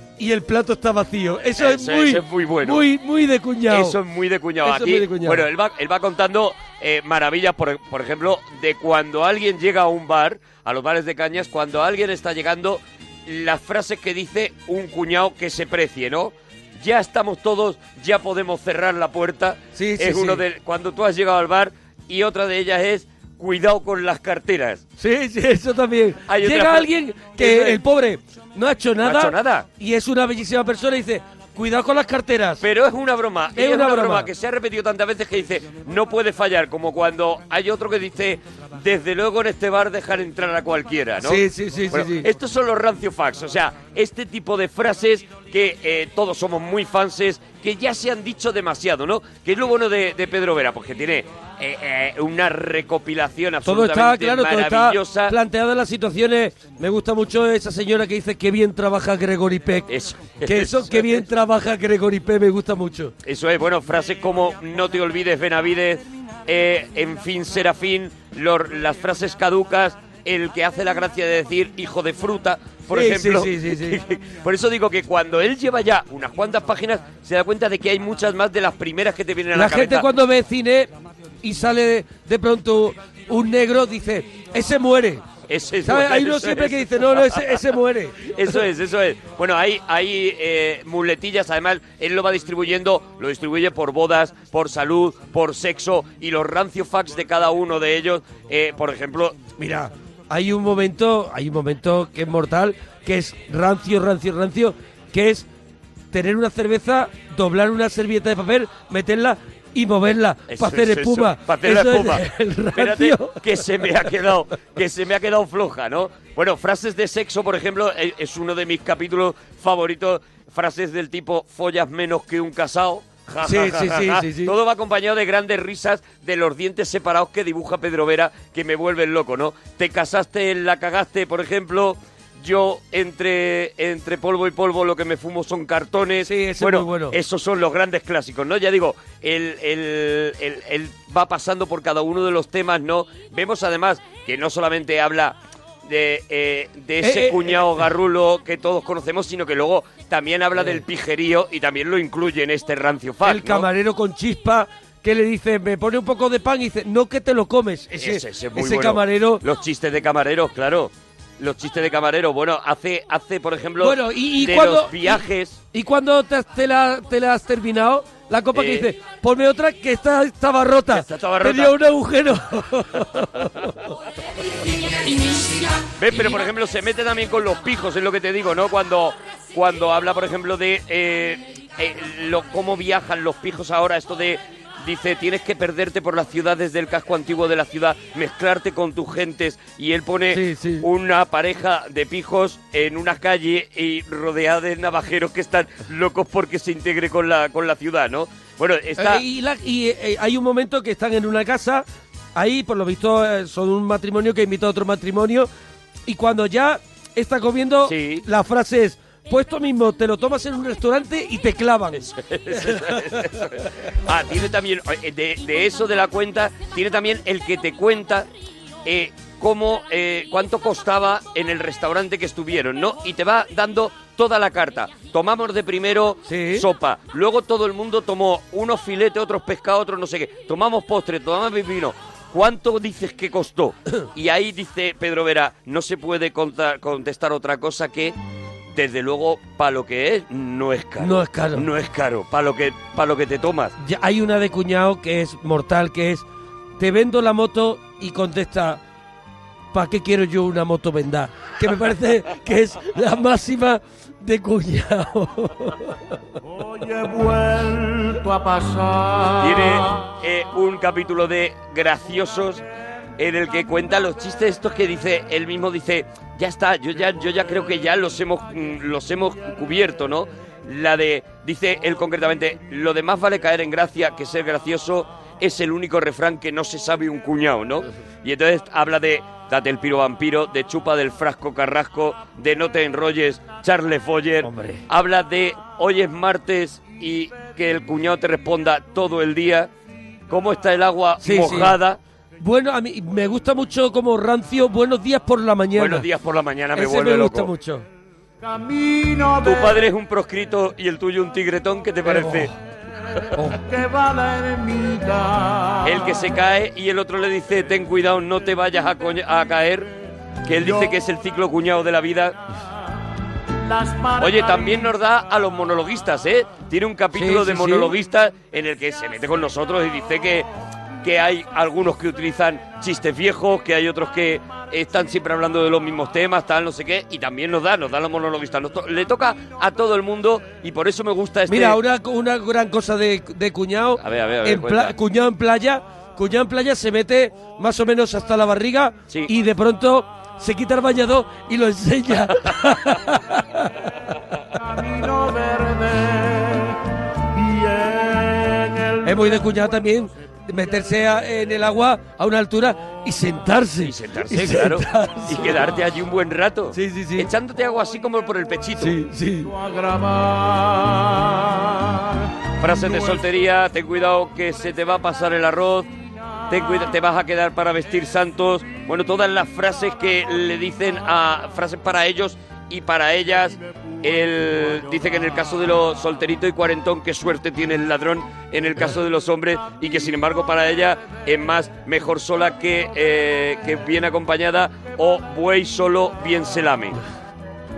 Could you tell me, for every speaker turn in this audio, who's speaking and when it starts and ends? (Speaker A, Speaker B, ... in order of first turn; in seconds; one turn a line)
Speaker A: 0.2-4.0
Speaker B: 1.6-2.9
Speaker B: 3.7-24.8
Speaker A: 4.6-5.4
Speaker A: 19.8-20.4
Speaker A: 25.0-32.6
Speaker B: 26.3-27.8
Speaker B: 29.0-29.7
Speaker B: 32.6-55.4
Speaker A: 33.6-34.3
Speaker A: 41.2-42.3
Speaker A: 53.6-59.9
Speaker B: 59.9-61.2
Speaker A: 60.4-63.1
Speaker B: 63.2-80.1
Speaker A: 72.9-74.0
Speaker A: 79.5-80.9
Speaker A: 81.4-85.2
Speaker B: 85.5-99.4
Speaker A: 85.8-88.5
Speaker A: 99.6-105.5
Speaker A: 106.1-113.6
Speaker B: 110.5-112.2
Speaker B: 112.8-153.7
Speaker A: 123.4-124.5
Speaker A: 136.2-137.2
Speaker A: 147.0-147.9
Speaker A: 153.2-159.4
Speaker B: 158.0-165.6
Speaker A: 163.8-173.9
Speaker B: 168.5-168.9
Speaker B: 170.9-171.8
Speaker B: 175.8-199.2
Speaker A: 190.3-190.9
Speaker A: 199.0-205.5
Speaker A: 206.1-213.6
Speaker B: 207.9-208.3
Speaker B: 212.0-218.3
Speaker B: 218.8-238.2
Speaker A: 226.3-226.7
Speaker B: 238.7-243.7
Speaker A: 241.0-241.7
Speaker A: 243.8-246.2
Speaker A: 246.8-248.8
Speaker A: 249.7-256.0
Speaker C: 256.5-260.1
Speaker B: 259.4-262.6
Speaker B: 263.2-289.7
Speaker A: 284.4-284.8
Speaker B: 290.3-292.0
Speaker A: 291.2-291.8
Speaker A: 292.4-296.1
Speaker B: 295.8-297.5
Speaker A: 296.8-297.9
Speaker C: 298.4-299.9
Speaker B: 299.4-302.5
Speaker A: 302.0-302.5
Speaker A: 303.3-303.6
Speaker C: 303.5-306.3
Speaker B: 305.8-312.4
Speaker C: 313.6-314.9
Speaker B: 314.2-320.5
Speaker A: 317.1-317.9
Speaker B: 321.0-331.8
Speaker A: 331.5-344.1
Speaker B: 334.0-334.9
Speaker C: 344.6-346.8
Speaker C: 347.3-349.9
Speaker A: 349.0-355.6
Speaker B: 353.8-359.0
Speaker A: 356.7-357.3
Speaker A: 358.8-359.5
Speaker C: 359.4-362.2
Speaker B: 362.6-365.9
Speaker B: 366.5-387.0